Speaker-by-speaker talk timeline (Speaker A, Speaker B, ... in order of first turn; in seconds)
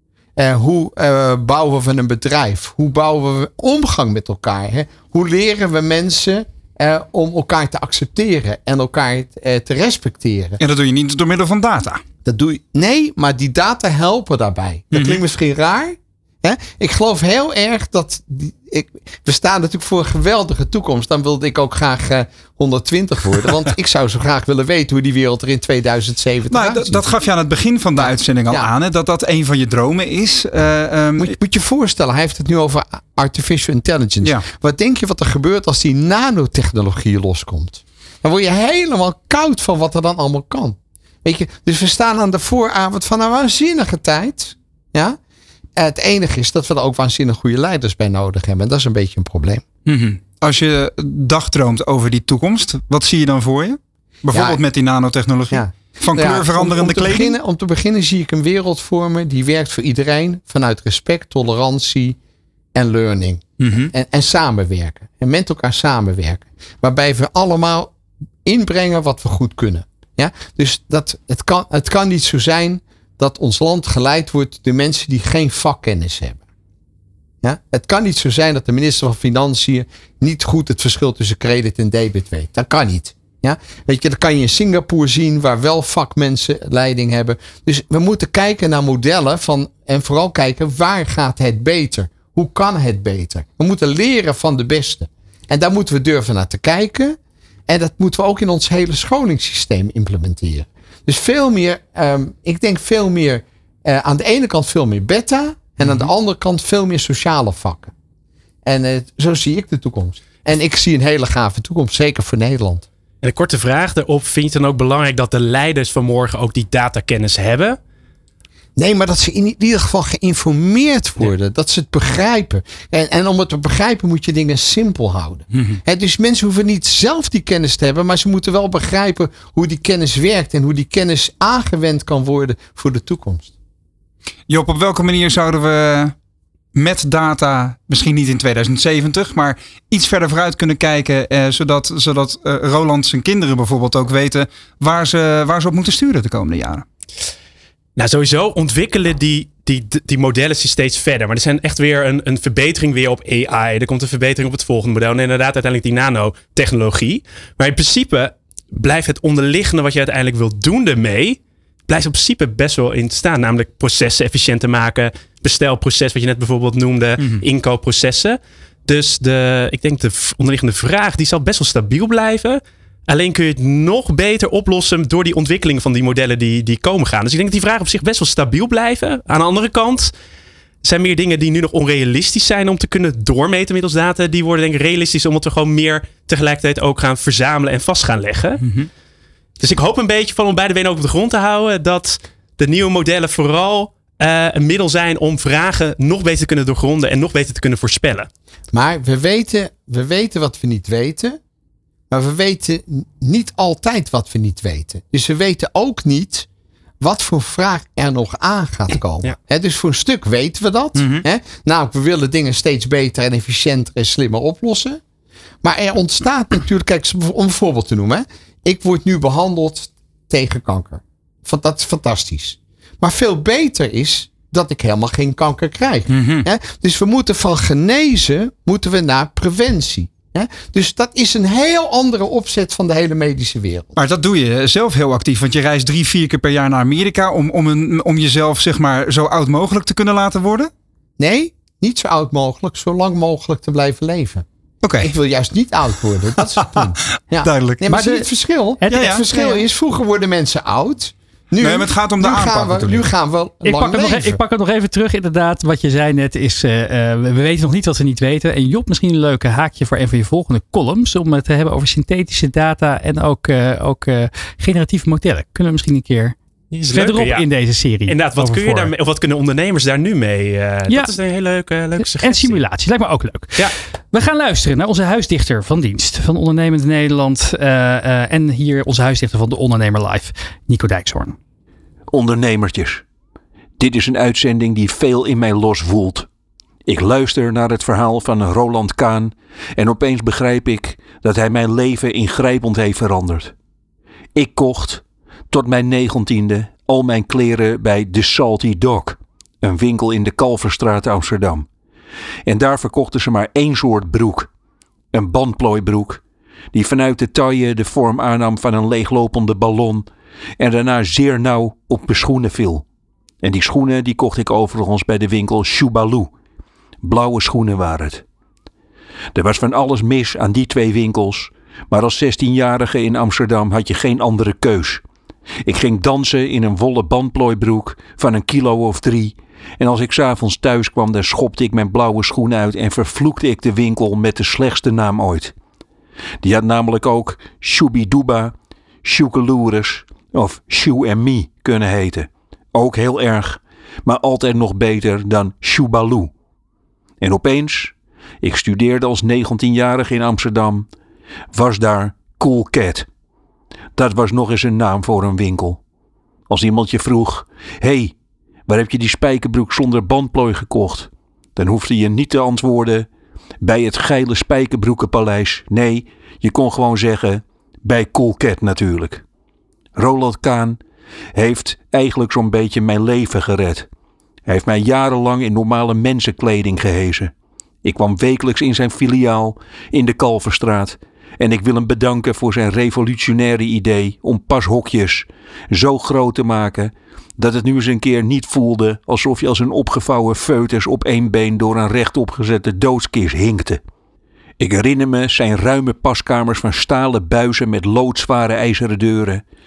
Speaker A: 0.4-10.6, 12.2-27.1, 28.0-28.7, 31.2-45.2, 45.8-49.6, 54.3-54.6, 55.5-62.2, 62.7-67.9, 68.5-76.4, 77.4-97.2, 97.7-107.9, 108.7-112.9, 118.8-133.5, 198.7-201.4, 202.1-206.5, 207.0-215.0, 215.6-234.0, 241.2-244.5, 245.0-254.4
Speaker B: 10.6-12.0, 14.9-15.2, 26.5-31.3, 49.9-57.4, 63.6-63.9, 105.8-106.1, 134.5-136.2, 136.7-146.9, 188.6-188.9, 211.0-211.2, 226.1-226.5, 234.0-240.7, 244.8-245.1, 247.4-247.9, 248.9-249.2, 251.6-253.1
Speaker C: 113.2-117.8, 148.0-180.1, 180.8-188.6, 189.6-198.3, 266.7-267.5, 268.1-272.6
Speaker D: 247.9-248.3, 248.8-249.6, 253.6-266.4, 266.9-268.9, 270.9-271.1, 272.0-281.4
Speaker E: 282.1-283.0, 283.8-286.3, 286.9-293.5, 294.4-301.7, 302.5-304.5, 305.1-306.2, 306.7-310.1, 310.6-312.9, 313.4-316.3, 317.0-318.2, 319.4-325.0, 325.6-335.5, 336.4-346.3, 347.2-350.9, 351.5-353.1, 353.9-355.8, 356.5-358.1, 358.7-363.1, 363.6-369.2, 369.9-370.8, 371.3-373.9, 374.5-393.8, 394.6-399.4